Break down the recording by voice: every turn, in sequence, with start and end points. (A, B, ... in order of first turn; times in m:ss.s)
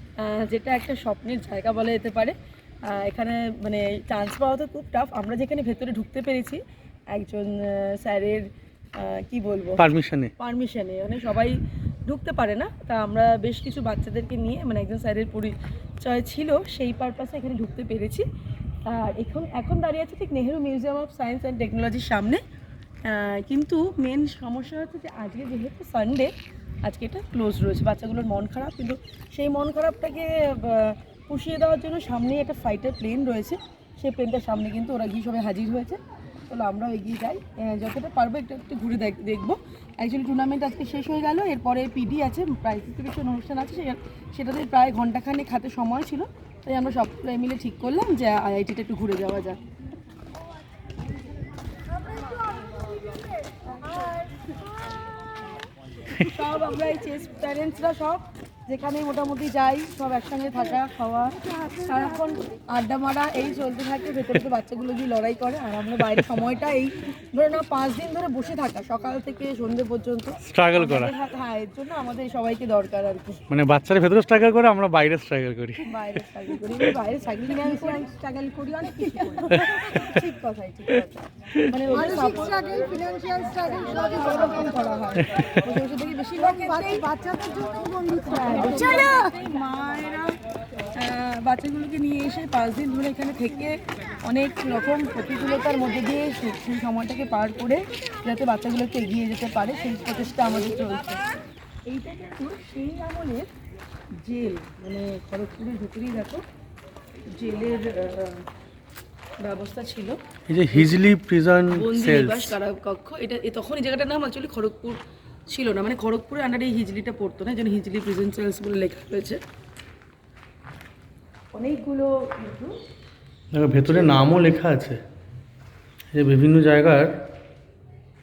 0:00.2-0:09.8 A
0:09.8-0:10.3 B
0:10.4-0:18.2 A
0:18.8-0:22.4 A
0:23.0-0:26.3 A
0:26.8-0:49.6 A
0:56.1-1:13.4 A
1:10.4-1:11.1 B
1:13.5-1:15.9 B
1:15.8-1:22.9 A
1:22.2-1:24.2 C
1:23.6-1:27.2 A
1:25.3-1:25.6 B
1:26.8-1:29.0 C
1:28.2-1:30.4 A
1:30.9-1:41.2 A
1:41.9-1:43.5 A
1:44.2-1:46.4 A
1:47.3-1:48.4 A
1:49.4-1:50.2 A
1:50.5-1:52.6 B
1:51.7-1:59.4 A
2:01.5-2:02.8 A
2:03.5-2:05.0 B
2:06.1-2:07.1 B